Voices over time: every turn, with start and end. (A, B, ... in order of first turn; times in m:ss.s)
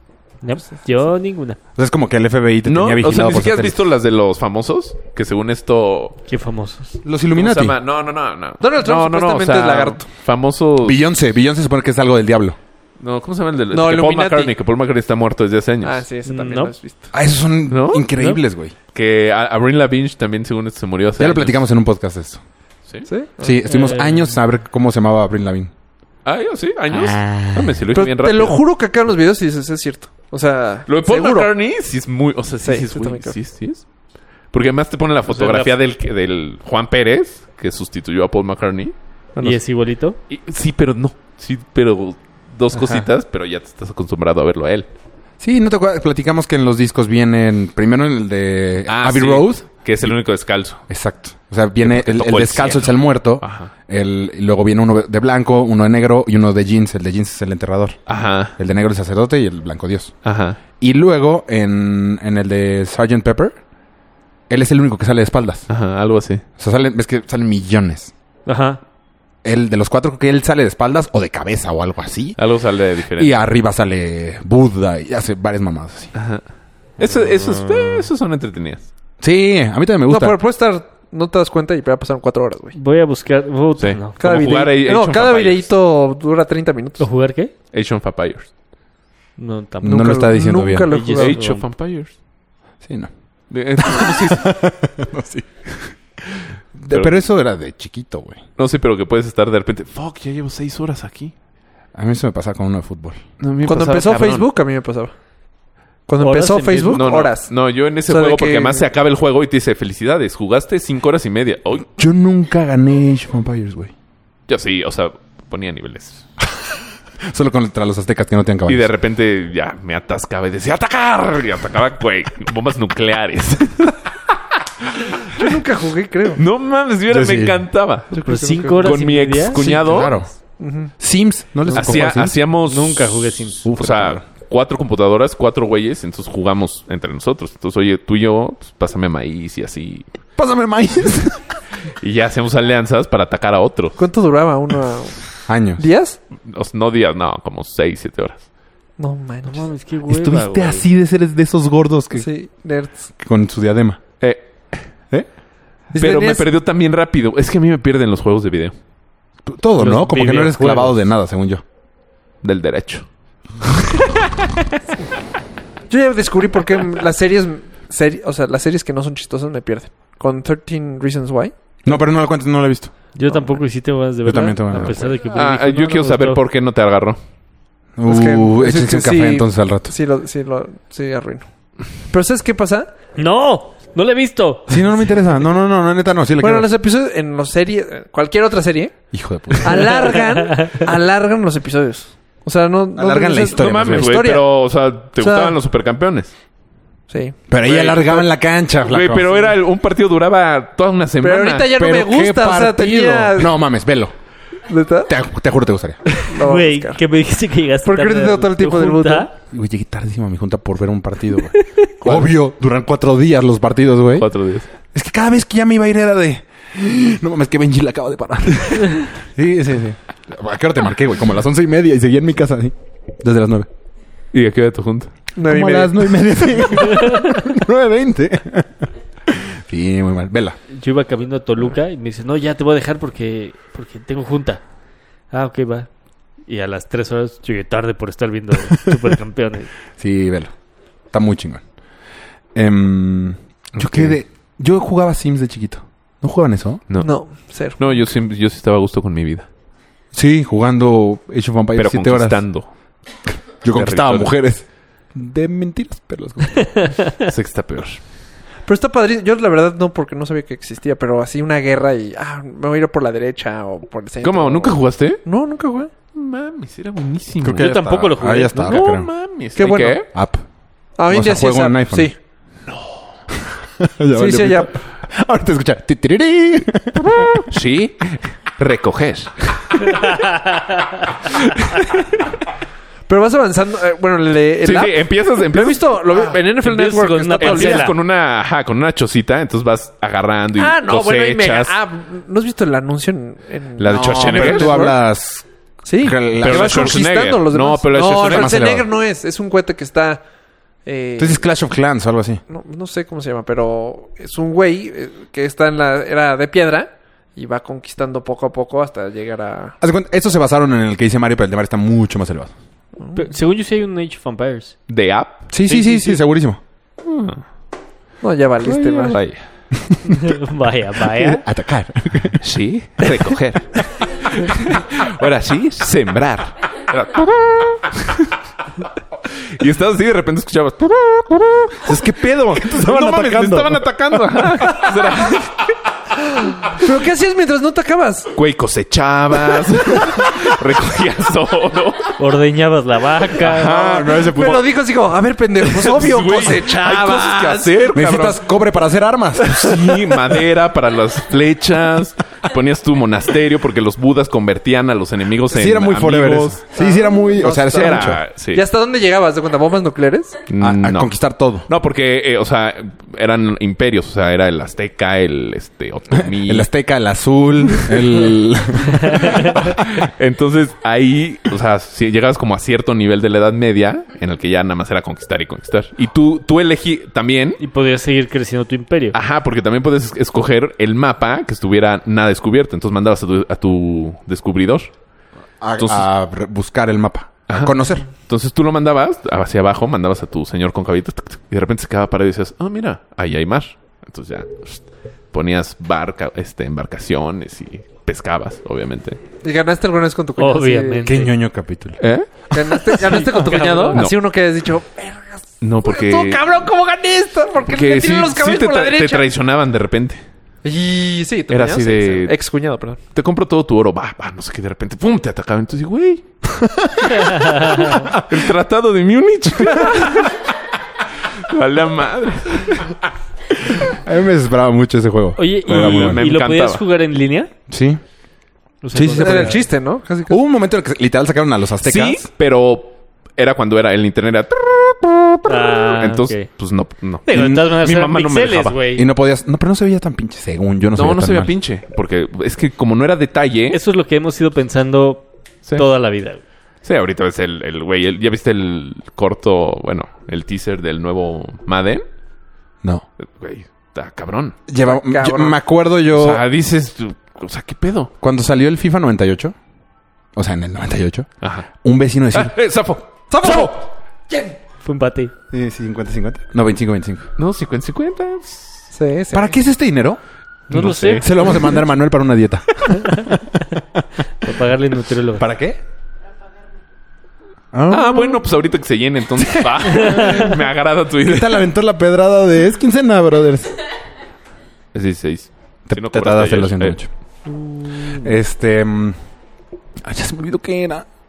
0:00.4-0:01.6 A
0:01.8-0:03.8 B
0:02.6-0:06.2 C
0:06.3-0:06.9 A
0:07.0-0:07.8 B
0:07.3-0:11.0 C
0:08.6-0:10.0 D
0:10.8-0:12.6 B
0:13.0-0:16.0 C
0:13.7-0:14.5 D
0:15.8-0:17.1 D
0:16.2-0:16.7 A
0:17.1-0:18.7 B
0:17.7-0:18.1 C
0:18.1-0:18.4 A
0:18.9-0:21.6 C
0:21.2-0:22.4 B
0:23.1-0:23.6 D
0:23.4-0:25.7 B
0:23.6-0:24.3 A
0:26.2-0:28.6 C
0:26.9-0:27.7 B
0:27.9-0:31.5 D
0:30.9-0:33.8 C
0:32.6-0:33.4 D
0:34.5-0:38.9 C
0:35.3-0:35.7 A
0:39.4-0:40.2 A
0:40.3-0:44.9 C
0:42.8-0:43.0 B
0:45.4-0:50.1 B
0:48.9-0:50.8 C
0:50.9-0:58.0 B
0:51.8-0:53.7 C
0:58.1-0:58.6 C
0:58.6-1:00.1 B
1:00.2-1:00.6 C
1:00.8-1:03.6 B
1:04.5-1:05.7 B
1:05.7-1:06.4 C
1:06.6-1:08.1 B
1:08.4-1:08.8 A
1:09.4-1:12.4 B
1:12.4-1:13.4 C
1:13.1-1:16.1 B
1:16.1-1:16.4 C
1:17.0-1:18.9 C
1:19.2-1:20.4 B
1:20.1-1:22.8 D
1:22.7-1:24.2 A
1:23.8-1:25.7 C
1:24.2-1:27.1 D
1:27.0-1:27.5 A
1:27.7-1:28.5 C
1:29.4-1:30.3 A
1:29.8-1:30.9 B
1:29.8-1:31.4 D
1:30.9-1:31.6 A
1:31.0-1:32.1 C
1:32.8-1:33.1 B
1:33.5-1:34.5 C
1:33.8-1:38.4 B
1:36.9-1:37.2 C
1:38.6-1:41.3 C
1:41.9-1:43.2 B
1:43.4-1:44.5 C
1:43.6-1:45.1 D
1:46.1-1:47.5 D
1:46.2-1:47.0 A
1:46.9-1:51.9 C
1:48.1-1:48.8 D
1:51.9-1:53.9 B
1:54.5-1:56.2 C
1:57.2-1:58.9 B
1:58.7-2:04.0 C
2:04.8-2:05.5 C
2:05.3-2:06.4 D
2:06.4-2:08.1 C
2:07.1-2:07.7 B
2:08.1-2:09.0 D
2:08.2-2:09.6 A
2:08.8-2:10.2 C
2:09.5-2:10.3 B
2:10.6-2:10.9 D
2:11.0-2:12.4 B
2:11.7-2:12.0 A
2:11.7-2:20.1 C
2:12.6-2:13.7 A
2:13.6-2:14.2 B
2:20.4-2:21.6 B
2:22.0-2:24.0 C
2:24.0-2:26.2 D
2:25.5-2:25.8 B
2:26.4-2:28.4 C
2:29.0-2:29.7 D
2:29.5-2:30.8 A
2:30.1-2:32.3 B
2:32.1-2:33.1 D
2:33.2-2:34.0 B
2:34.2-2:34.9 C
2:35.9-2:36.5 D
2:36.0-2:38.7 C
2:39.4-2:41.6 B
2:39.8-2:41.0 A
2:42.4-2:43.1 C
2:45.9-2:51.5 D
2:51.8-2:52.9 B
2:53.1-2:56.4 A
2:53.3-2:53.6 D
2:54.2-2:55.2 B
2:55.2-2:57.2 C
2:58.0-2:59.9 B
2:58.1-3:01.4 D
3:02.1-3:02.9 D
3:03.2-3:04.8 A
3:04.7-3:06.7 B
3:06.4-3:14.5 D
3:09.1-3:10.0 B
3:12.9-3:14.2 B
3:13.6-3:16.3 C
3:15.2-3:15.6 D
3:17.1-3:18.3 D
3:17.5-3:19.4 B
3:18.8-3:21.7 C
3:21.2-3:23.6 D
3:21.7-3:24.1 B
3:24.7-3:25.1 D
3:25.1-3:26.1 B
3:26.1-3:27.0 D
3:26.4-3:29.3 A
3:27.8-3:29.3 D
3:29.5-3:34.3 B
3:31.5-3:31.9 A
3:34.2-3:34.7 C
3:34.8-3:43.7 B
3:44.3-3:45.1 C
3:45.3-3:46.1 D
3:45.4-3:50.6 B
3:50.7-3:54.6 A
3:55.3-3:55.9 A
3:56.5-3:59.7 A
4:00.0-4:00.5 B
4:01.1-4:01.6 B
4:02.5-4:06.8 B
4:03.7-4:04.2 C
4:06.9-4:09.5 C
4:07.0-4:08.0 D
4:10.1-4:12.4 B
4:11.8-4:12.7 C
4:13.6-4:16.9 B
4:13.7-4:14.3 C
4:17.2-4:18.0 C
4:18.6-4:25.9 D
4:24.2-4:25.2 C
4:26.1-4:27.8 C
4:27.4-4:29.1 B
4:27.5-4:28.8 A
4:28.6-4:30.1 C
4:29.6-4:30.1 D
4:30.1-4:30.4 B
4:31.0-4:32.1 D
4:31.1-4:32.1 B
4:32.7-4:33.0 C
4:33.5-4:37.5 B
4:34.1-4:34.8 D
4:37.5-4:40.2 C
4:39.9-4:40.8 A
4:41.2-4:42.0 C
4:43.1-4:47.9 D
4:44.6-4:46.2 C
4:46.5-4:48.0 A
4:47.4-4:51.8 C
4:50.6-4:55.0 D
4:53.8-4:54.8 C
4:53.8-4:55.4 B
4:55.8-5:00.2 D
4:56.0-4:57.0 B
4:56.4-4:58.7 C
4:58.1-4:58.9 B
5:00.8-5:01.4 D
5:01.2-5:02.4 B
5:02.5-5:09.8 D
5:09.8-5:12.5 B
5:13.0-5:13.3 D
5:13.1-5:14.8 A
5:14.9-5:15.4 C
5:15.5-5:16.6 B
5:15.7-5:16.2 A
5:17.0-5:17.4 C
5:18.2-5:19.2 D
5:18.6-5:19.4 C
5:20.0-5:21.4 A
5:21.1-5:22.4 B
5:22.4-5:28.3 C
5:29.3-5:35.7 C
5:31.9-5:34.4 B
5:34.8-5:35.3 D
5:36.4-5:38.3 D
5:38.3-5:42.1 C
5:42.2-5:43.8 A
5:43.4-5:44.7 C
5:43.6-5:44.6 B
5:43.7-5:47.8 D
5:45.6-5:48.4 C
5:47.9-5:49.8 B
5:49.4-5:56.6 C
5:55.5-5:58.2 B
5:56.7-6:00.4 D
5:57.6-5:58.6 C
6:00.5-6:01.1 C
6:00.6-6:01.7 B
6:01.7-6:06.7 C
6:06.2-6:09.3 B
6:09.1-6:17.6 C
6:17.6-6:19.2 A
6:19.1-6:24.9 C
6:25.6-6:28.0 B
6:25.8-6:26.1 C
6:27.5-6:39.2 C
6:39.4-6:41.2 D
6:40.4-6:41.3 A
6:41.0-6:42.0 B
6:42.0-6:42.3 C
6:42.5-6:49.2 D
6:42.8-6:44.2 C
6:43.1-6:44.1 A
6:45.6-6:46.4 C
6:47.6-6:50.2 C
6:50.6-6:53.0 D
6:51.5-6:52.4 C
6:53.1-6:56.2 C
6:56.5-6:58.4 B
6:57.2-6:58.0 A
6:58.2-7:00.4 C
6:59.7-7:00.1 D
7:01.5-7:03.0 C
7:03.8-7:06.2 B
7:05.4-7:07.5 A
7:05.7-7:06.8 C
7:07.7-7:08.0 B
7:08.8-7:09.6 A
7:08.9-7:09.7 B
7:09.2-7:10.4 D
7:10.3-7:12.3 B
7:11.8-7:18.8 C
7:15.4-7:16.5 A
7:17.2-7:19.1 A
7:17.3-7:17.7 B
7:18.9-7:21.5 B
7:20.9-7:23.8 C
7:23.7-7:26.4 A
7:26.8-7:32.0 C
7:33.2-7:34.6 C
7:34.7-7:36.4 B
7:34.8-7:35.6 D
7:36.1-7:38.1 C
7:38.2-7:39.5 B
7:40.3-7:41.3 B
7:41.4-7:41.7 C
7:41.8-7:42.5 B
7:42.3-7:43.1 C
7:43.3-7:44.6 D
7:44.8-7:45.3 A
7:45.5-7:47.3 B
7:47.4-7:48.9 C
7:48.9-7:49.6 D
7:49.3-7:50.2 B
7:50.7-7:51.5 A
7:50.7-7:51.6 C
7:51.1-7:54.0 B
7:53.0-7:53.3 A
7:54.4-7:55.4 A
7:55.4-7:55.8 B
7:57.7-7:58.4 B
7:57.9-8:01.7 C
7:59.4-8:00.6 B
8:01.2-8:03.7 B
8:04.9-8:07.0 C
8:05.9-8:07.1 B
8:07.5-8:08.2 A
8:08.0-8:09.2 B
8:10.0-8:11.1 B